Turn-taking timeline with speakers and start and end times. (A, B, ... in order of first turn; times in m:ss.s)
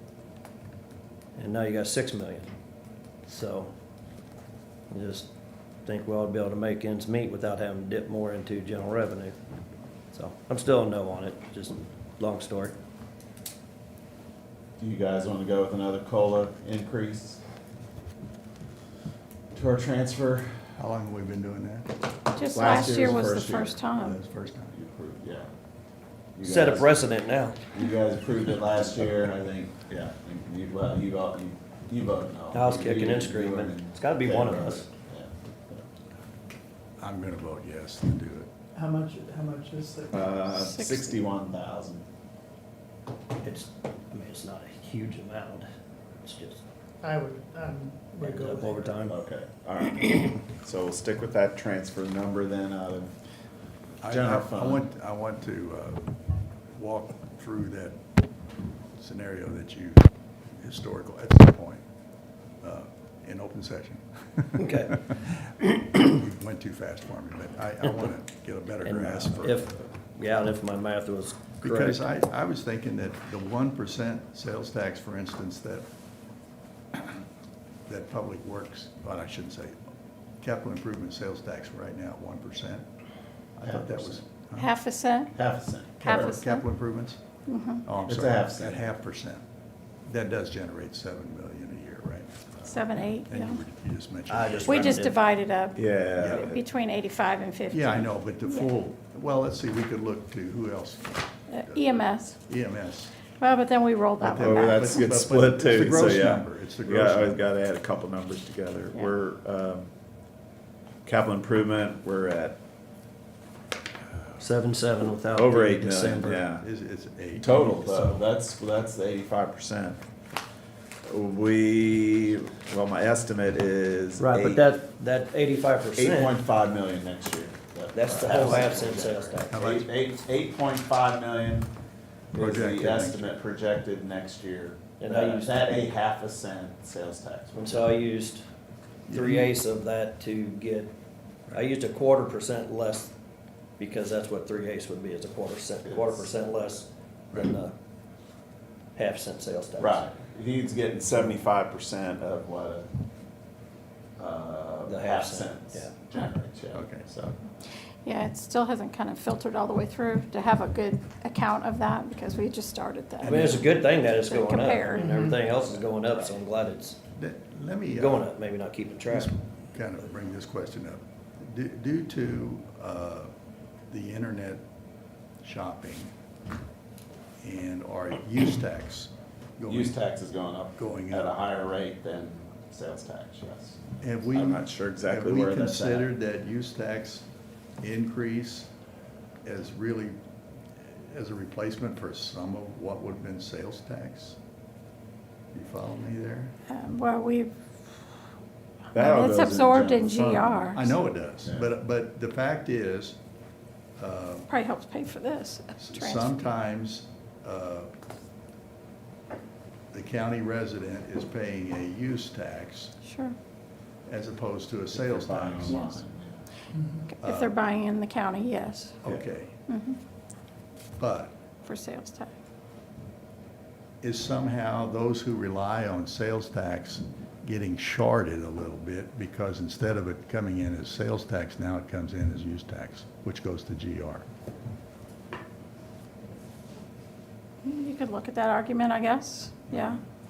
0:01.4-0:02.5 A
0:03.2-0:03.7 A
0:04.9-0:05.3 A
0:05.8-0:09.4 A
0:10.1-0:12.8 A
0:14.8-0:17.4 B
0:19.5-0:20.7 B
0:20.8-0:21.9 C
0:22.3-0:24.2 D
0:22.4-0:23.8 B
0:24.0-0:24.7 C
0:24.7-0:25.5 B
0:26.4-0:27.0 B
0:26.4-0:27.7 A
0:27.7-0:35.8 B
0:32.5-0:34.9 A
0:37.0-0:38.5 C
0:38.8-0:40.4 E
0:40.1-0:42.0 B
0:40.5-0:41.2 D
0:43.4-0:45.7 A
0:46.2-0:46.6 A
0:47.0-0:49.0 E
0:48.2-0:49.2 A
0:49.1-0:53.1 B
0:50.0-0:50.3 A
0:54.0-0:56.2 C
0:54.1-0:54.9 B
0:56.8-0:58.0 C
0:59.0-1:01.8 C
1:02.6-1:05.0 C
1:04.6-1:05.1 A
1:06.0-1:09.8 C
1:08.8-1:12.0 A
1:11.6-1:15.9 C
1:16.9-1:17.2 C
1:17.9-1:19.8 C
1:20.4-1:22.8 C
1:23.6-1:24.7 C
1:23.6-1:24.2 B
1:24.6-1:25.3 D
1:25.4-1:26.4 B
1:26.0-1:27.2 C
1:26.0-1:26.6 D
1:27.5-1:27.8 D
1:27.8-1:29.4 C
1:28.1-1:28.8 B
1:30.1-1:35.0 C
1:32.6-1:33.6 D
1:34.3-1:35.2 A
1:34.6-1:38.7 D
1:35.8-1:36.6 B
1:36.2-1:36.5 C
1:37.7-1:41.8 C
1:41.5-1:42.4 D
1:42.5-1:43.2 C
1:43.4-1:45.1 D
1:44.2-1:47.4 C
1:44.4-1:49.9 B
1:51.0-1:52.6 B
1:54.4-1:56.4 A
1:55.3-1:56.6 B
1:55.9-1:58.2 C
1:57.4-2:00.0 B
2:01.1-2:04.6 B
2:04.2-2:06.3 A
2:06.0-2:11.7 B
2:07.9-2:09.5 A
2:08.3-2:08.8 C
2:09.5-2:09.9 C
2:12.3-2:18.0 B
2:12.3-2:13.4 C
2:15.0-2:15.9 A
2:17.5-2:18.4 A
2:19.1-2:19.5 C
2:19.1-2:20.9 A
2:21.5-2:23.1 A
2:23.8-2:27.7 A
2:25.9-2:26.3 B
2:29.0-2:30.0 A
2:29.8-2:32.9 B
2:34.2-2:37.4 B
2:34.8-2:35.9 A
2:36.7-2:37.1 C
2:38.0-2:45.1 D
2:43.2-2:43.8 C
2:43.2-2:47.0 A
2:45.0-2:45.4 E
2:47.2-2:48.3 C
2:48.0-2:49.3 A
2:49.1-2:53.3 C
2:53.9-2:54.6 C
2:55.4-2:56.1 C
2:57.4-3:00.0 C
2:59.7-3:03.8 B
3:00.8-3:01.3 C
3:04.0-3:07.3 C
3:04.3-3:06.1 B
3:07.8-3:08.7 C
3:09.4-3:10.2 C
3:10.9-3:14.4 C
3:15.5-3:16.5 C
3:16.7-3:17.6 D
3:18.9-3:20.8 B
3:18.9-3:20.9 D
3:20.7-3:23.2 C
3:24.0-3:24.5 C
3:24.5-3:26.4 D
3:25.8-3:27.9 C
3:29.9-3:33.0 C
3:33.0-3:33.4 D
3:34.1-3:35.8 C
3:34.9-3:36.4 B
3:35.7-3:36.0 D
3:37.1-3:39.0 D
3:37.2-3:37.6 C
3:39.0-3:39.6 C
3:39.7-3:40.0 D
3:41.0-3:41.4 C
3:41.6-3:42.3 D
3:44.0-3:54.3 C
3:57.6-4:00.0 D
3:59.7-4:00.0 C